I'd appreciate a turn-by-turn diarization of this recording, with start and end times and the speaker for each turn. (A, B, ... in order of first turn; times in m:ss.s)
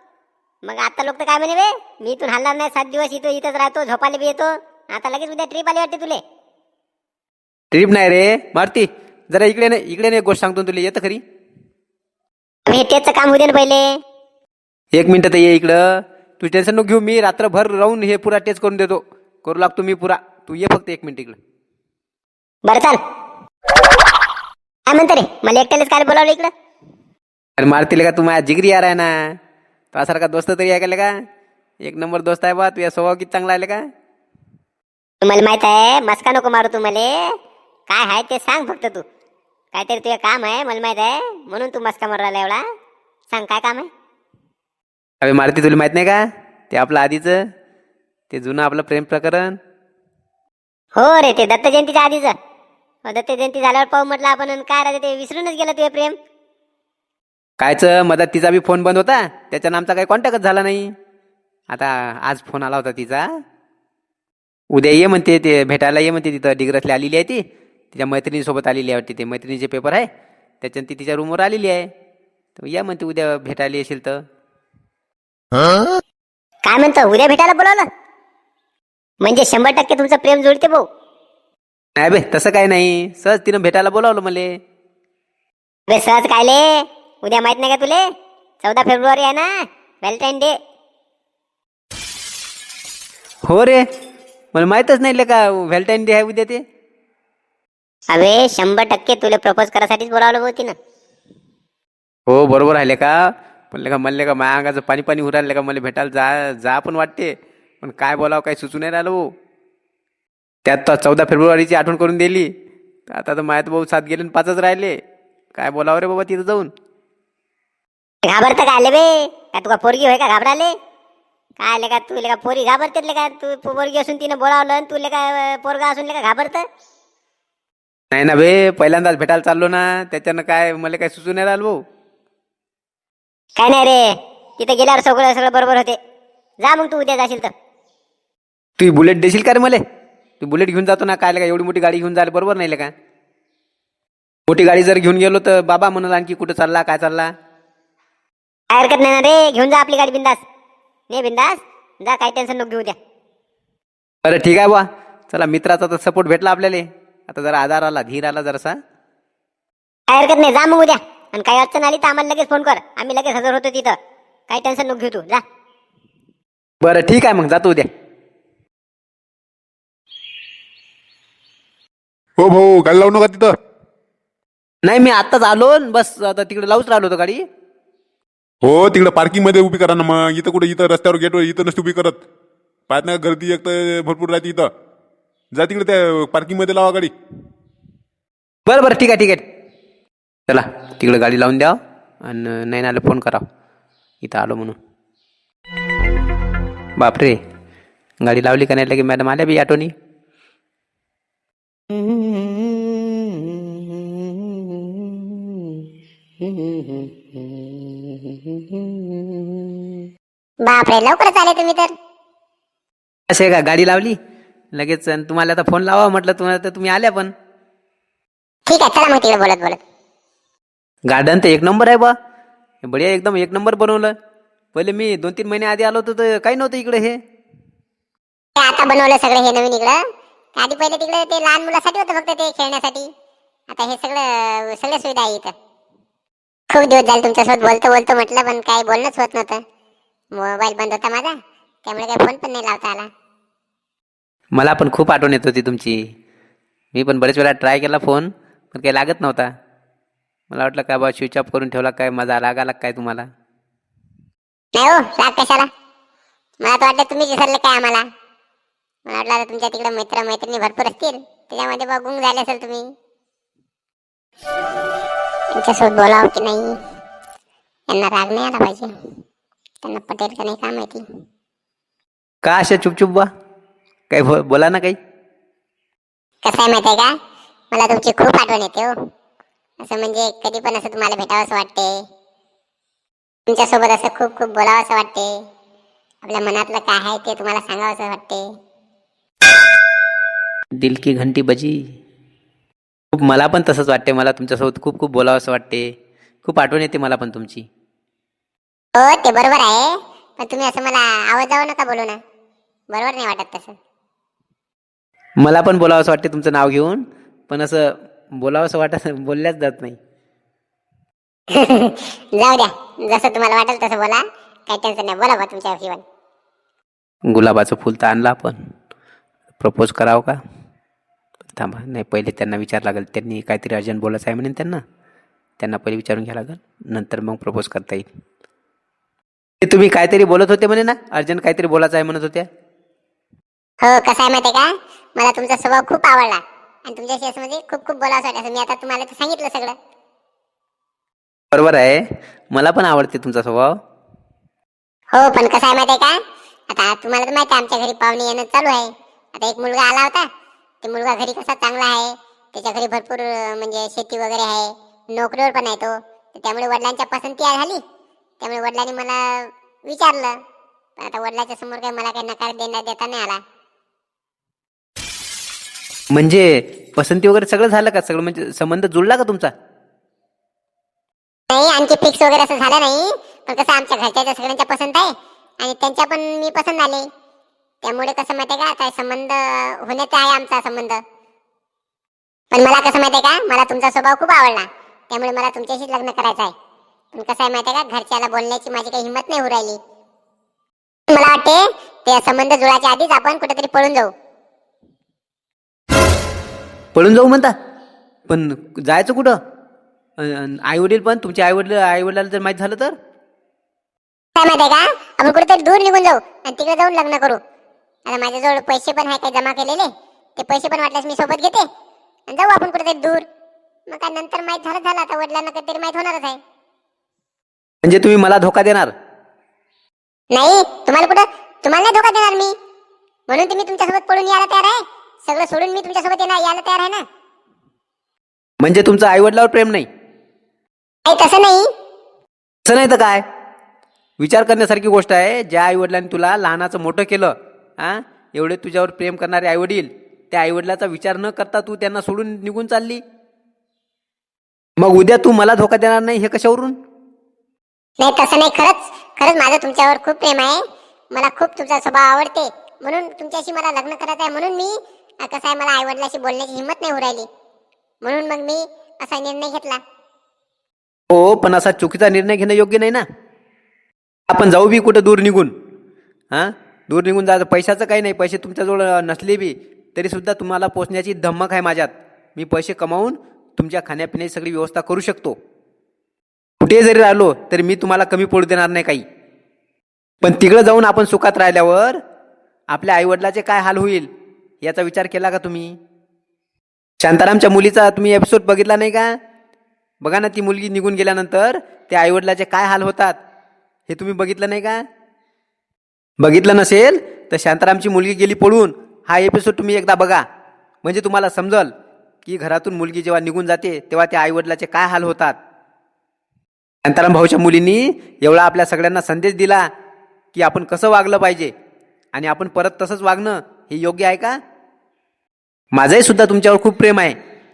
0:00.6-0:06.2 A
0:07.7-0:11.2 B
0:12.7-0:13.9 A
0:14.9-0:21.4 B
0:22.6-0:23.0 A
0:24.9-0:26.5 A
0:27.6-0:29.3 B
0:29.9-0:31.1 B
0:31.8-0:33.8 B
0:35.2-0:37.1 A
0:37.9-0:39.0 A
0:39.7-0:42.6 A
0:43.3-0:43.9 A
0:45.2-0:47.4 B
0:48.3-0:49.6 B
0:51.0-0:52.3 A
0:53.0-0:56.2 A
0:57.6-1:00.9 B
1:01.7-1:03.3 B
1:04.7-1:10.1 B
1:10.6-1:11.9 B
1:12.6-1:14.2 B
1:16.6-1:17.8 A
1:19.2-1:20.8 A
1:22.0-1:24.5 B
1:25.9-1:28.0 A
1:28.6-1:29.5 A
1:30.0-1:30.5 A
1:33.4-1:33.8 B
1:34.5-1:36.6 B
1:38.1-1:40.7 A
1:42.3-1:49.2 B
1:50.6-1:52.5 B
1:53.1-1:55.0 B
1:55.5-1:56.7 B
1:58.2-2:00.7 A
2:01.6-2:06.6 A
2:08.1-2:11.8 B
2:13.6-2:14.1 A
2:14.6-2:16.0 A
2:16.6-2:17.5 A
2:18.8-2:19.8 B
2:20.4-2:22.9 B
2:24.5-2:27.3 B
2:28.7-2:30.4 A
2:31.1-2:33.0 A
2:34.2-2:38.8 B
2:40.1-2:44.0 A
2:44.5-2:45.4 A
2:46.8-2:47.9 B
2:52.4-2:53.5 C
2:54.8-2:57.4 B
2:58.6-3:02.2 C
3:02.9-3:04.7 C
3:05.5-3:07.1 C
3:08.6-3:09.4 B
3:10.5-3:13.4 B
3:14.2-3:14.8 B
3:17.0-3:17.4 B
3:18.2-3:19.9 B
3:21.9-3:23.8 A
3:24.5-3:24.9 A
3:26.4-3:27.6 A
3:28.8-3:29.4 A
3:30.6-3:31.9 D
3:33.3-3:34.2 B
3:34.7-3:37.3 B
3:38.7-3:39.8 D
3:41.1-3:42.1 B
3:42.8-3:44.1 B
3:44.7-3:47.2 B
3:48.6-3:50.0 D
3:50.6-3:53.1 D
3:53.7-3:55.5 D
3:56.7-3:59.6 D
4:00.3-4:01.3 D
4:01.8-4:03.1 D
4:04.5-4:06.0 B
4:06.9-4:09.5 B
4:10.5-4:13.3 B
4:14.7-4:15.7 D
4:16.6-4:18.0 D
4:19.0-4:22.9 D
4:25.5-4:26.7 D
4:27.9-4:28.9 D
4:29.8-4:31.0 D
4:32.4-4:33.3 B
4:34.1-4:35.0 B
4:36.4-4:37.1 D
4:37.7-4:38.9 D
4:39.8-4:42.0 D
4:43.5-4:45.4 D
4:46.2-4:48.4 D
4:50.7-4:51.8 B
4:53.1-4:55.9 B
4:56.4-4:57.6 B
4:59.0-5:02.2 D
5:02.9-5:03.8 D
5:05.4-5:10.0 B
5:11.5-5:16.0 D
5:17.3-5:18.6 B
5:19.6-5:20.4 B
5:21.5-5:24.8 B
5:25.6-5:28.1 B
5:29.6-5:32.5 B
5:33.8-5:39.8 D
5:41.5-5:43.8 B
5:45.1-5:50.3 D
5:50.8-5:57.8 D
5:58.4-6:00.4 D
6:01.0-6:03.4 D
6:06.1-6:09.5 B
6:11.5-6:17.1 D
6:17.8-6:21.0 D
6:22.5-6:26.5 D
6:27.1-6:29.8 D
6:31.1-6:34.1 D
6:36.9-6:37.5 B
6:38.3-6:39.4 B
6:40.2-6:42.9 B
6:44.4-6:47.4 D
6:48.1-6:51.7 D
6:52.3-6:53.2 D
6:53.9-6:56.4 D
6:57.8-6:58.9 B
7:00.3-7:02.5 D
7:03.3-7:07.0 D
7:08.6-7:09.9 B
7:11.0-7:11.7 D
7:12.6-7:13.2 B
7:14.2-7:23.0 B
7:24.8-7:26.8 B
7:28.0-7:37.3 D
7:38.0-7:39.8 D
7:41.1-7:43.0 B
7:44.3-7:45.5 B
7:46.3-7:55.4 B
7:56.6-7:59.0 B
8:00.2-8:02.0 B
8:02.7-8:04.1 B
8:04.6-8:05.8 B
8:07.0-8:09.2 B
8:10.0-8:13.2 B
8:13.9-8:14.8 B
8:16.2-8:20.2 B
8:20.8-8:21.7 B
8:22.2-8:25.4 B
8:26.8-8:29.7 B
8:30.3-8:31.5 B
8:32.1-8:34.4 B
8:35.7-8:37.2 B